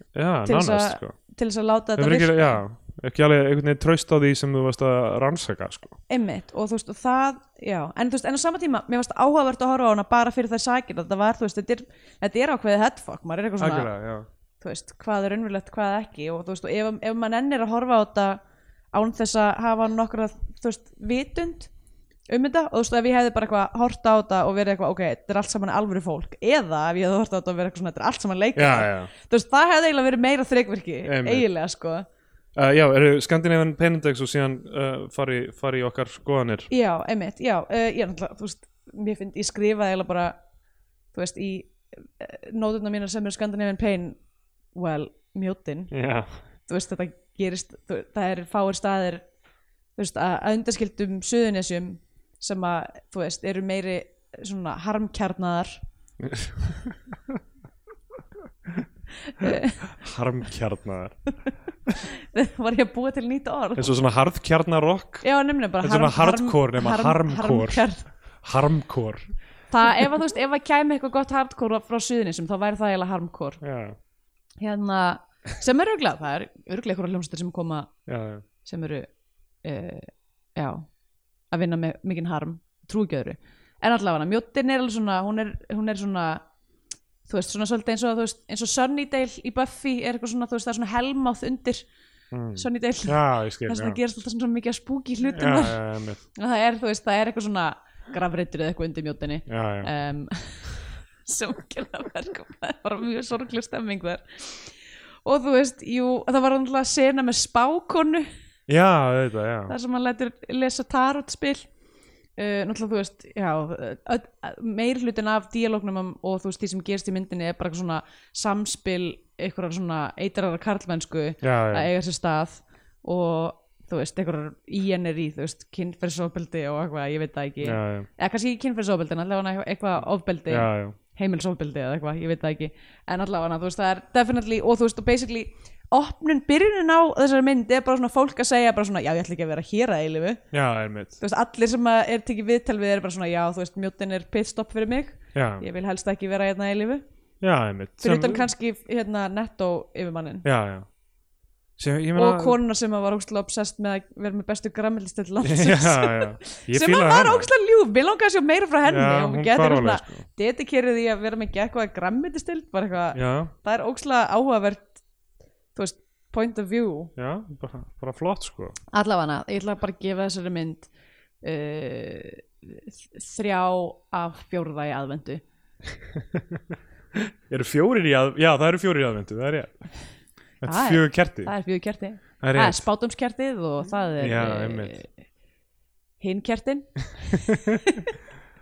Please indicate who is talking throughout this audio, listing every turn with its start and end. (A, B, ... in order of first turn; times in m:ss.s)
0:00.1-0:01.2 A
0:00.4-0:02.6 B
0:02.0-0:06.0 A
0:06.1-0:13.9 B
0:13.6-0:14.2 A
0:14.6-0:18.4 B
0:18.9-0:21.7 B
0:22.3-0:32.0 B
0:28.6-0:29.1 A
0:31.0-0:31.4 A
0:32.6-0:36.7 A
0:36.7-0:40.3 B
0:41.1-0:44.2 B
0:44.7-0:45.9 B
0:45.9-0:46.4 A
0:46.7-0:49.2 B
0:50.0-0:55.8 B
0:56.2-0:57.1 A
0:59.2-0:59.8 B
0:59.4-1:01.3 A
1:02.1-1:03.9 B
1:03.8-1:05.2 A
1:05.2-1:08.0 B
1:05.8-1:07.8 A
1:08.4-1:09.3 A
1:09.7-1:13.6 B
1:13.6-1:14.0 A
1:14.6-1:17.9 B
1:18.1-1:18.4 A
1:18.6-1:19.1 B
1:19.6-1:20.9 B
1:21.5-1:26.4 B
1:27.2-1:31.9 B
1:32.3-1:34.0 A
1:32.6-1:35.8 B
1:35.3-1:36.2 A
1:36.3-1:48.3 B
1:39.5-1:39.9 A
1:48.7-1:49.7 A
1:49.7-1:51.7 B
1:52.4-2:20.4 B
2:01.4-2:01.9 A
2:07.6-2:08.1 A
2:10.5-2:11.0 A
2:20.5-2:21.2 A
2:21.2-2:27.0 B
2:25.3-2:25.6 A
2:27.4-2:28.4 A
2:28.0-2:30.4 B
2:30.4-2:30.9 A
2:31.8-2:32.6 A
2:32.2-2:45.0 B
2:35.4-2:37.5 A
2:38.8-2:40.2 A
2:43.1-2:43.5 A
2:45.7-2:47.1 B
2:47.2-2:48.8 A
2:48.9-2:50.9 B
2:51.4-2:55.4 B
2:56.2-2:56.6 A
2:57.2-3:00.0 A
3:00.6-3:01.5 A
3:00.6-3:05.1 B
3:02.4-3:02.8 A
3:04.2-3:05.0 A
3:06.2-3:08.1 B
3:07.5-3:07.8 A